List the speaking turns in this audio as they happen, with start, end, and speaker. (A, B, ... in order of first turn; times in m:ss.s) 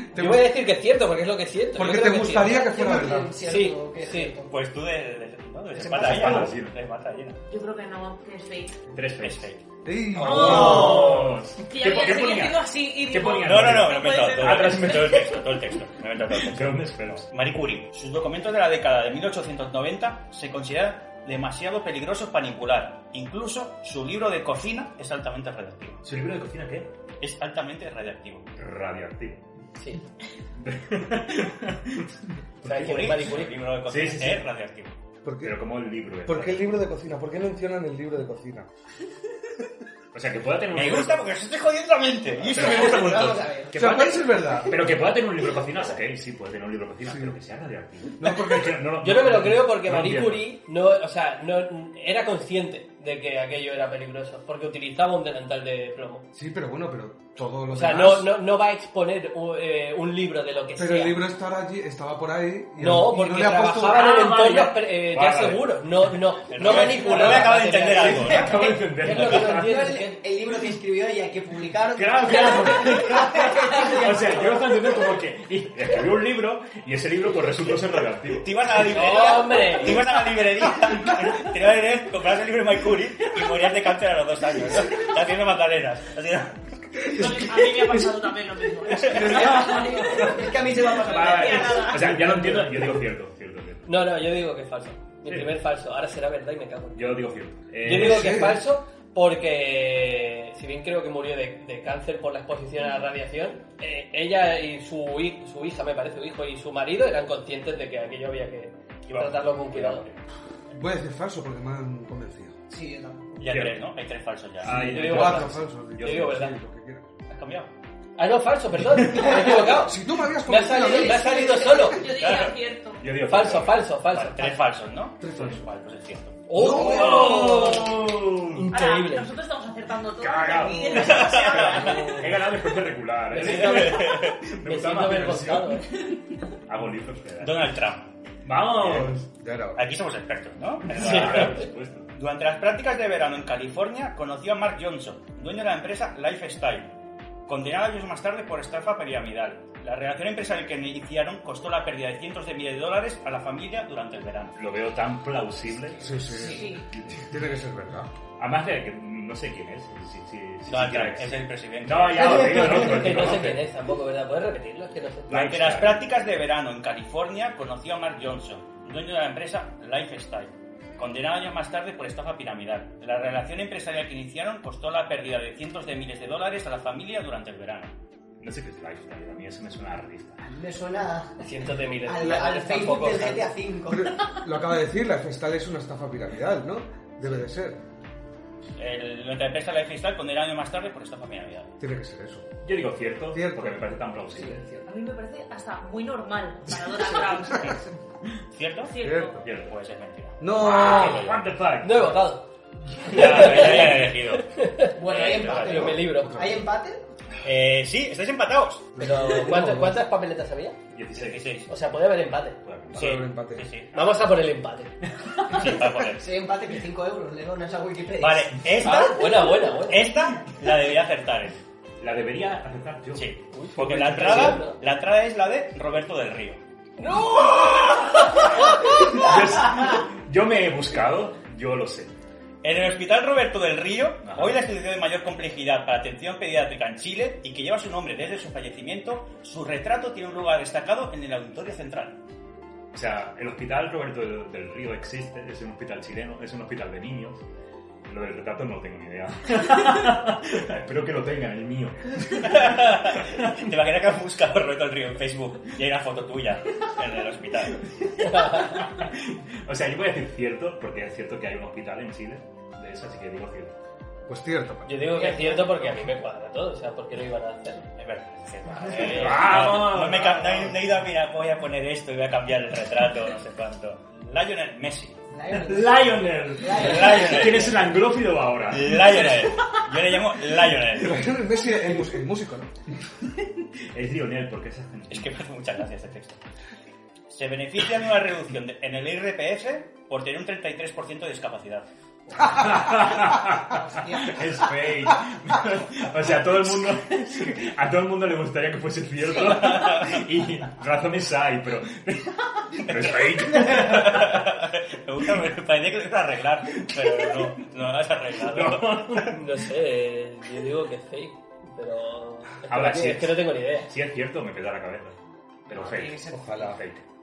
0:00.1-0:00.5 A
0:00.1-0:02.7 B
0:01.8-0:03.3 A
0:02.3-0:04.6 C
0:03.4-0:04.4 B
0:04.5-0:07.4 D
0:05.8-0:06.8 E
0:05.9-0:06.5 C
0:07.5-0:08.8 F
0:08.9-0:09.5 E
0:09.2-0:09.6 D
0:09.8-0:11.0 A
0:10.2-0:11.3 B
0:10.2-0:15.5 E
0:10.2-0:15.2 F
0:13.4-0:26.0 D
0:16.3-0:17.3 E
0:26.0-0:26.9 E
0:27.2-0:28.5 D
0:28.6-0:29.4 E
0:30.6-0:32.2 E
0:32.6-0:33.6 B
0:32.6-0:35.0 D
0:33.9-0:34.5 E
0:35.2-0:35.6 A
0:35.4-0:36.7 E
0:36.3-0:38.7 A
0:40.1-0:41.2 E
0:40.7-0:43.5 D
0:42.5-0:44.2 C
0:42.5-0:50.5 E
0:43.7-0:45.0 A
0:47.1-0:47.4 A
0:48.1-0:48.9 A
0:49.0-0:56.2 B
0:56.3-0:58.3 A
0:57.7-1:01.2 B
1:00.8-1:04.1 A
1:02.8-1:10.2 B
1:03.8-1:09.9 E
1:06.5-1:08.7 D
1:08.2-1:14.7 C
1:11.9-1:18.6 E
1:18.4-1:27.2 D
1:18.9-1:20.0 B
1:27.1-1:30.5 F
1:28.9-1:29.7 D
1:29.0-1:32.0 C
1:29.0-1:33.9 E
1:31.0-1:32.2 F
1:32.1-1:32.6 B
1:33.9-1:37.2 B
1:35.3-1:35.5 E
1:37.0-1:38.5 E
1:37.8-1:50.0 B
1:37.9-1:38.6 A
1:49.1-1:50.2 D
1:50.7-1:52.6 A
1:52.7-1:53.6 C
1:53.4-1:54.8 D
1:53.4-1:53.8 E
1:54.6-1:56.5 E
1:54.6-1:56.6 B
1:54.6-1:57.0 A
1:57.3-1:57.7 D
1:58.2-2:02.0 B
1:58.9-1:59.4 E
1:59.6-2:01.8 A
2:00.7-2:02.1 C
2:01.8-2:03.1 F
2:02.1-2:02.6 D
2:03.0-2:04.0 E
2:03.2-2:04.6 B
2:04.1-2:06.4 D
2:05.2-2:05.6 A
2:06.5-2:09.3 B
2:06.6-2:07.4 A
2:06.6-2:08.7 E
2:08.7-2:12.2 F
2:10.2-2:15.9 E
2:10.6-2:11.1 C
2:10.9-2:12.2 D
2:13.3-2:15.9 B
2:13.4-2:14.4 D
2:16.7-2:17.7 E
2:17.4-2:18.1 D
2:18.4-2:19.3 E
2:18.8-2:19.1 D
2:19.4-2:19.8 A
2:19.8-2:26.9 D
2:20.9-2:22.1 E
2:20.9-2:21.6 B
2:27.5-2:34.6 D
2:34.6-2:37.3 E
2:36.0-2:38.1 A
2:36.3-2:36.8 C
2:36.5-2:36.9 F
2:38.4-2:43.7 E
2:40.7-2:42.7 D
2:42.6-2:45.3 B
2:45.3-2:46.0 E
2:45.3-2:57.9 D
2:58.4-3:00.4 E
3:00.4-3:01.4 C
3:01.4-3:03.5 B
3:02.0-3:04.2 C
3:03.9-3:07.8 A
3:08.8-3:11.7 D
3:11.8-3:12.5 A
3:12.6-3:14.6 E
3:13.3-3:14.0 A
3:14.3-3:14.9 C
3:14.9-3:17.9 F
3:18.5-3:18.9 D
3:18.8-3:19.4 F
3:19.0-3:19.4 A
3:19.4-3:19.8 E
3:19.6-3:21.4 D
3:20.4-3:21.4 A
3:20.5-3:22.2 E
3:21.8-3:22.5 B
3:23.0-3:26.0 D
3:23.0-3:26.4 B
3:23.1-3:23.8 E
3:25.0-3:27.0 C
3:25.9-3:26.6 A
3:27.4-3:28.9 D
3:29.0-3:30.0 A
3:29.0-3:30.8 B
3:30.9-3:31.6 E
3:31.1-3:31.7 D
3:31.7-3:32.6 B
3:32.6-3:33.2 E
3:33.0-3:33.7 A
3:33.0-3:34.2 D
3:33.9-3:35.0 B
3:35.2-3:35.9 E
3:35.5-3:36.2 D
3:36.1-3:38.6 C
3:38.2-3:41.6 D
3:38.8-3:40.2 B
3:42.0-3:43.3 E
3:43.2-3:46.6 D
3:43.5-3:44.8 B
3:44.3-3:44.6 E
3:47.0-3:48.0 B
3:47.1-3:52.1 E
3:52.6-4:02.2 D
3:54.2-3:54.6 E
4:02.9-4:07.4 E
4:08.1-4:13.7 E
4:12.4-4:17.9 D
4:18.2-4:18.8 B
4:18.5-4:23.8 E
4:24.3-4:25.0 A
4:24.9-4:27.8 B
4:25.1-4:25.9 C
4:28.0-4:35.2 D
4:28.8-4:29.2 C
4:28.9-4:30.8 E
4:35.3-4:37.8 C
4:35.5-4:39.8 E
4:36.7-4:37.8 D
4:38.7-4:41.4 D
4:41.0-4:42.7 A
4:43.4-4:45.3 E
4:45.1-4:46.4 D
4:47.3-4:51.9 D
4:52.3-5:04.5 E
4:53.4-4:54.7 C
4:59.3-5:00.2 D
5:02.9-5:09.4 D
5:06.8-5:07.5 E
5:08.4-5:09.4 E
5:09.2-5:13.9 B
5:12.7-5:15.2 E
5:15.7-5:17.0 E
5:15.7-5:16.8 C
5:16.3-5:16.8 A